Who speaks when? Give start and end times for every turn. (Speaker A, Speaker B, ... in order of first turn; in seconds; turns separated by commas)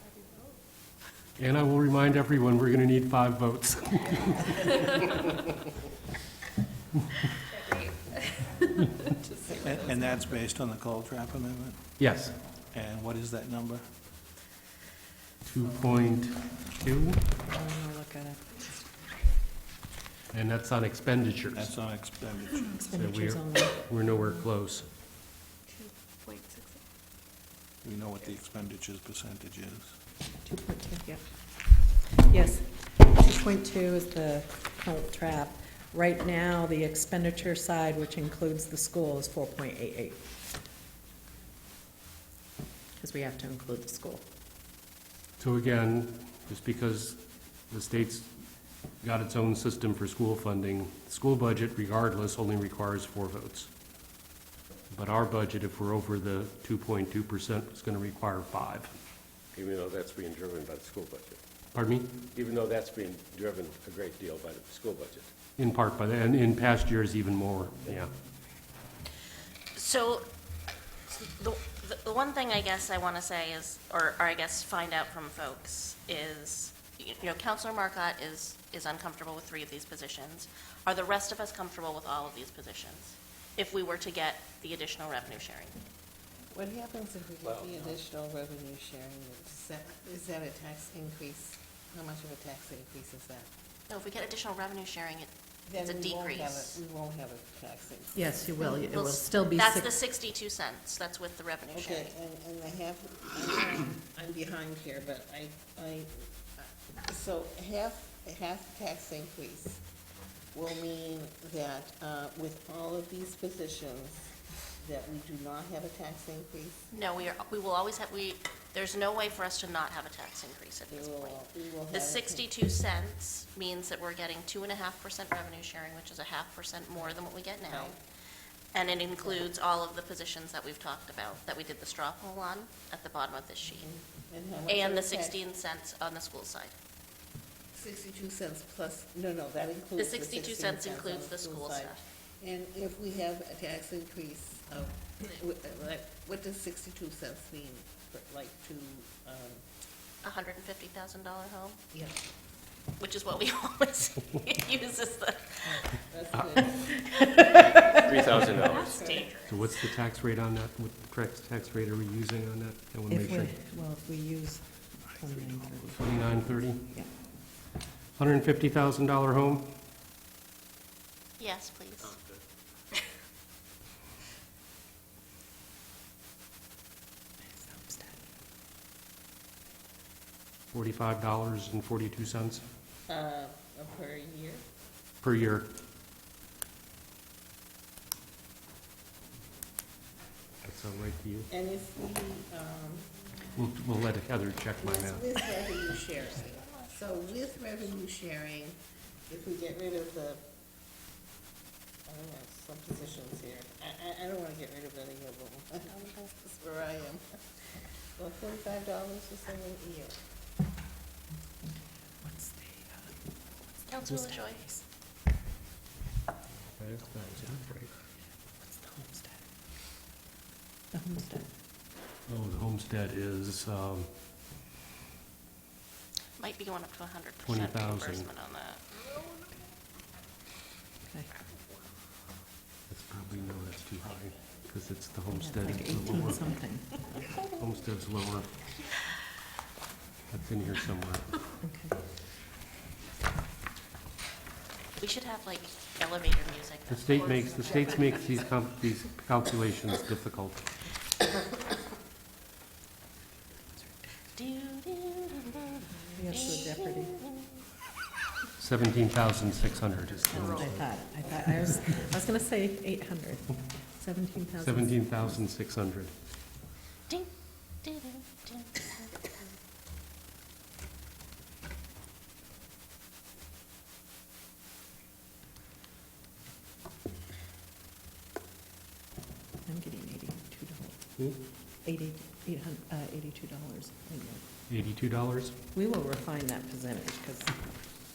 Speaker A: 1.4-5.3, Speaker B: 9.5-11.9, Speaker A: 12.0-12.4, Speaker B: 12.6-14.0, Speaker A: 15.4-17.4, Speaker C: 17.4-19.1, Speaker A: 20.3-21.7, Speaker B: 21.5-22.9, Speaker C: 22.7-24.5, Speaker A: 23.0-24.9, Speaker B: 27.8-30.0, Speaker C: 30.4-31.2, Speaker C: 32.0-40.2, Speaker C: 43.0-44.2, Speaker A: 45.4-47.2, Speaker A: 47.7-48.3, Speaker A: 49.0-53.7, Speaker A: 54.9-58.9, Speaker D: 59.5-61.4, Speaker A: 61.7-62.2, Speaker D: 62.3-65.3, Speaker A: 65.6-68.1, Speaker E: 69.8-70.3, Speaker E: 71.1-85.8, Speaker F: 86.5-93.5, Speaker E: 93.9-96.8, Speaker F: 95.7-98.8, Speaker C: 98.2-99.9, Speaker E: 98.7-102.1, Speaker F: 101.7-109.8, Speaker F: 110.5-116.9, Speaker E: 116.9-128.0, Speaker F: 120.9-122.5, Speaker F: 127.7-128.0, Speaker E: 128.7-133.9, Speaker F: 129.2-129.5, Speaker F: 133.9-135.4, Speaker E: 134.7-136.8, Speaker F: 137.7-149.6, Speaker E: 140.0-142.0, Speaker E: 150.2-151.8, Speaker F: 151.9-152.2, Speaker E: 153.0-156.0, Speaker F: 156.1-156.9, Speaker E: 157.3-157.6, Speaker C: 157.6-158.6, Speaker D: 158.0-159.0, Speaker A: 158.2-163.6, Speaker E: 159.0-159.2, Speaker C: 163.1-164.6, Speaker C: 165.2-167.1, Speaker A: 165.8-167.1, Speaker A: 168.2-169.8, Speaker E: 171.4-172.2, Speaker C: 177.5-178.2, Speaker A: 180.7-182.6, Speaker F: 183.1-184.7, Speaker A: 185.2-185.7, Speaker A: 190.6-191.5, Speaker F: 191.5-193.2, Speaker A: 193.6-195.3, Speaker F: 194.8-200.4, Speaker E: 196.7-196.9, Speaker F: 202.1-207.4, Speaker E: 205.9-206.3, Speaker F: 208.2-210.2, Speaker C: 212.2-213.1, Speaker E: 213.9-214.7, Speaker C: 214.0-214.8, Speaker A: 216.7-217.9, Speaker C: 218.7-219.3, Speaker C: 220.9-221.5, Speaker A: 222.3-224.1, Speaker E: 226.4-228.8, Speaker A: 227.4-228.3, Speaker A: 232.9-236.5, Speaker C: 235.3-237.1, Speaker A: 237.4-238.5, Speaker A: 240.3-241.4, Speaker C: 241.6-242.0, Speaker E: 245.0-248.4, Speaker A: 246.9-250.7, Speaker E: 254.4-257.6, Speaker C: 256.1-257.2, Speaker A: 258.6-260.9, Speaker C: 260.3-265.0, Speaker A: 264.6-266.1, Speaker E: 267.8-269.4, Speaker C: 279.7-281.2, Speaker C: 281.9-284.4, Speaker A: 284.7-285.6, Speaker C: 285.7-287.6